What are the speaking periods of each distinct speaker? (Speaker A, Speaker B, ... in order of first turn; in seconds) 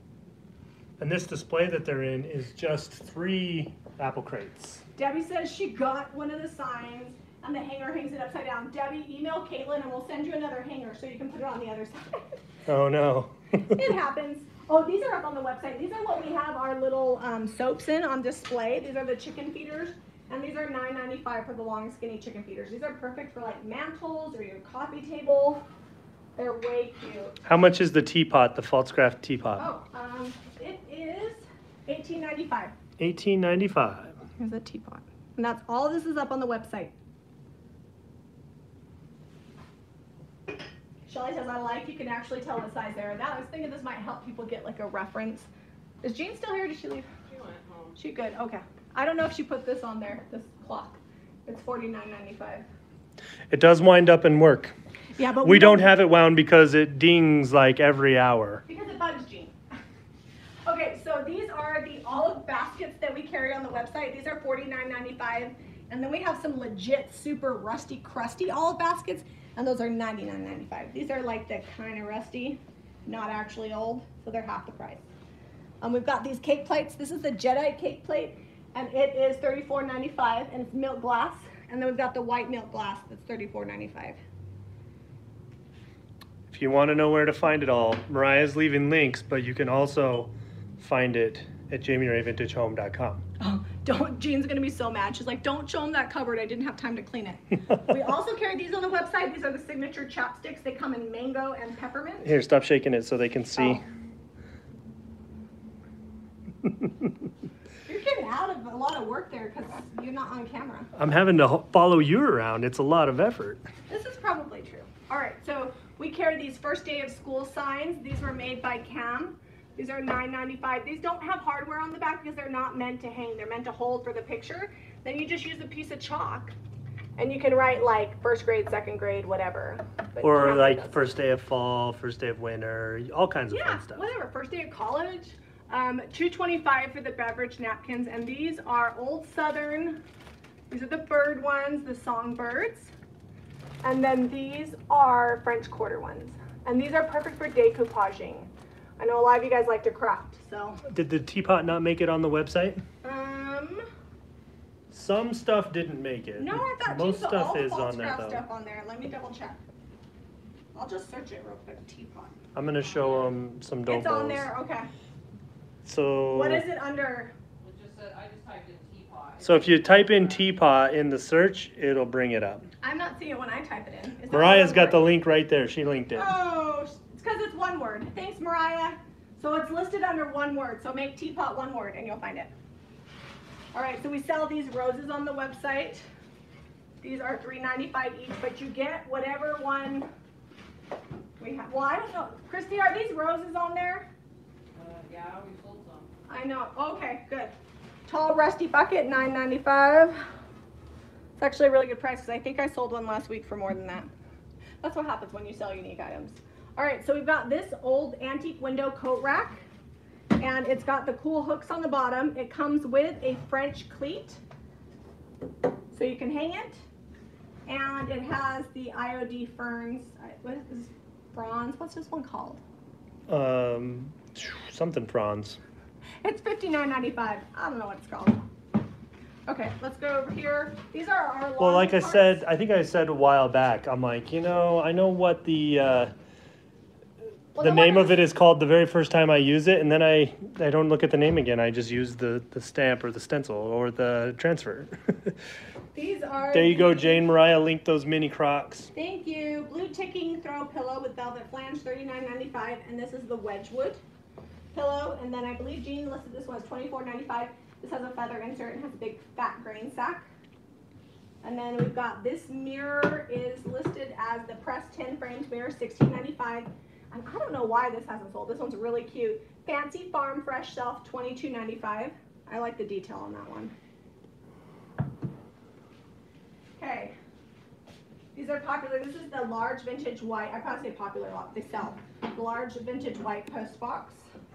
Speaker A: 1.0-4.8, 12.7-13.8, 27.4-29.6, 33.0-34.2, 53.5-54.7, 55.4-58.6, 86.5-93.2, 102.2-103.8, 110.9-113.6, 130.2-134.1, 150.9-152.8, 154.9-158.4, 162.5-164.5, 165.8-166.6, 169.4-172.6, 174.3-176.3, 223.3-225.6, 231.6-236.1, 237.6-245.4, 246.5-248.9
Speaker B: 5.0-12.4, 13.7-25.6, 26.4-27.4, 29.6-32.7, 34.4-36.9, 41.0-45.5, 46.0-47.1, 48.0-52.6, 55.1-55.9, 58.7-59.5, 60.6-75.0, 75.8-84.2, 93.4-102.3, 103.5-103.8, 107.9-110.9, 113.9-126.5, 127.2-131.1, 133.5-140.0, 140.7-142.9, 143.8-150.8, 153.0-153.8, 156.4-159.6, 160.7-162.3, 163.9-164.9, 166.3-167.3, 172.8-175.1, 176.1-182.5, 183.7-186.1, 187.0-190.1, 191.4-194.1, 196.3-197.5, 198.1-200.2, 201.4-204.1, 204.8-209.6, 210.4-214.4, 215.9-216.8, 217.7-222.6, 226.2-228.4, 229.5-232.4, 237.5-238.2, 245.9-247.2, 248.9-254.0, 254.7-260.3, 261.4-273.7, 276.8-277.1, 278.3-284.2
Speaker C: 47.3-48.0, 162.8-163.4, 167.6-170.5, 194.7-196.1